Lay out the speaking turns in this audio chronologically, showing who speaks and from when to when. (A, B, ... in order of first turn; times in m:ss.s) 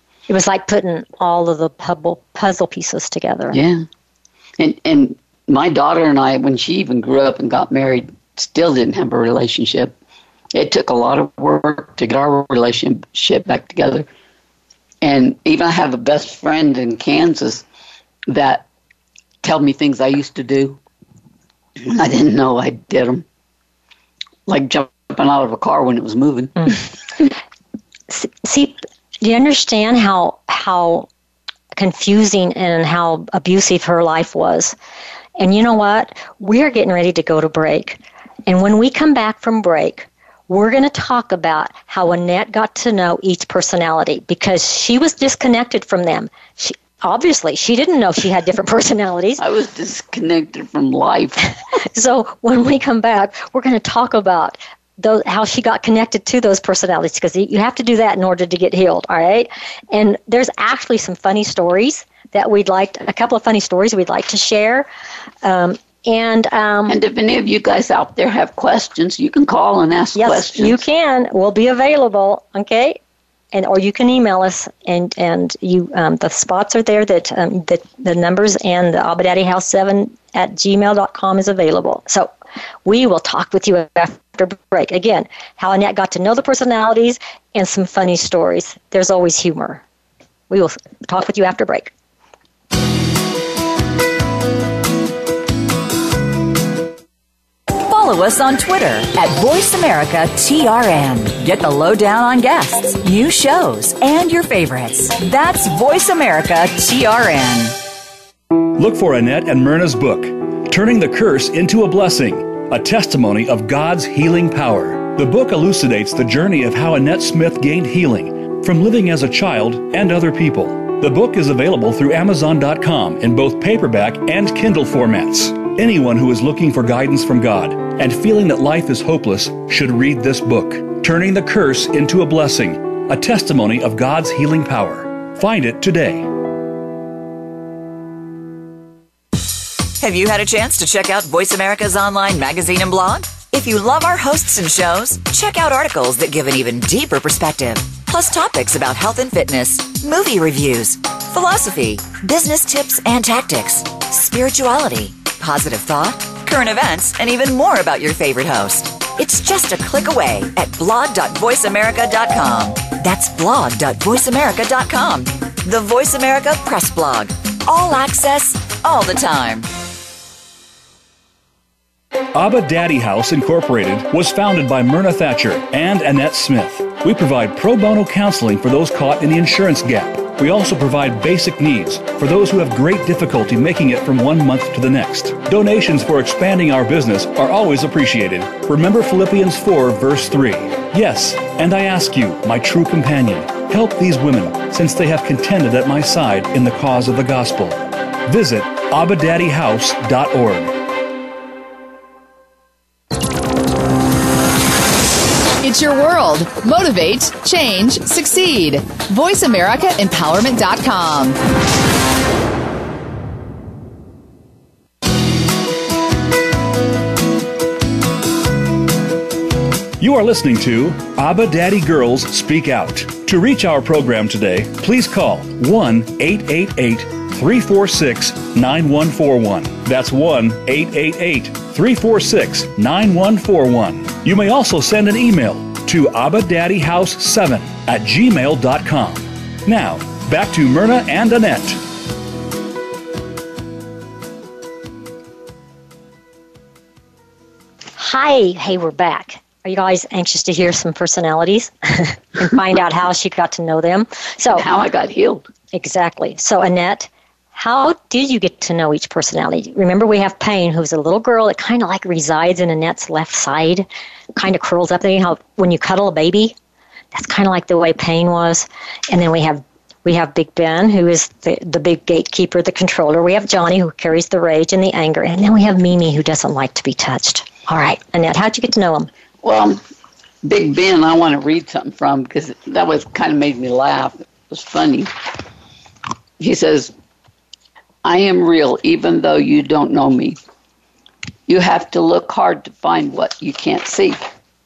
0:00.3-0:03.6 A
0:03.5-0:03.8 B
0:04.6-0:10.0 B
0:10.5-0:14.1 B
0:15.0-0:17.6 B
0:18.3-0:18.7 B
0:19.4-0:20.8 B
0:21.8-0:23.2 B
0:24.5-0:26.8 B
0:28.1-0:31.1 A
0:31.8-0:34.8 A
0:35.4-0:49.4 A
0:49.4-0:51.5 B
0:51.9-1:04.9 A
1:05.4-1:07.0 A
1:06.9-1:10.8 B
1:10.2-1:13.0 A
1:13.5-1:22.3 A
1:22.8-1:29.8 A
1:30.5-1:31.9 A
1:37.7-1:47.8 C
1:48.8-2:16.3 D
2:20.0-2:49.7 C
2:52.3-3:20.8 D
3:25.6-3:31.4 E
3:40.0-4:01.8 D
4:08.0-4:14.7 A
4:14.5-4:15.5 B
4:15.7-4:26.6 A
4:27.1-4:39.1 A
4:39.4-4:39.8 B
4:40.4-4:45.1 B
4:46.4-4:46.9 B
4:48.0-4:50.4 B
4:51.5-4:54.2 B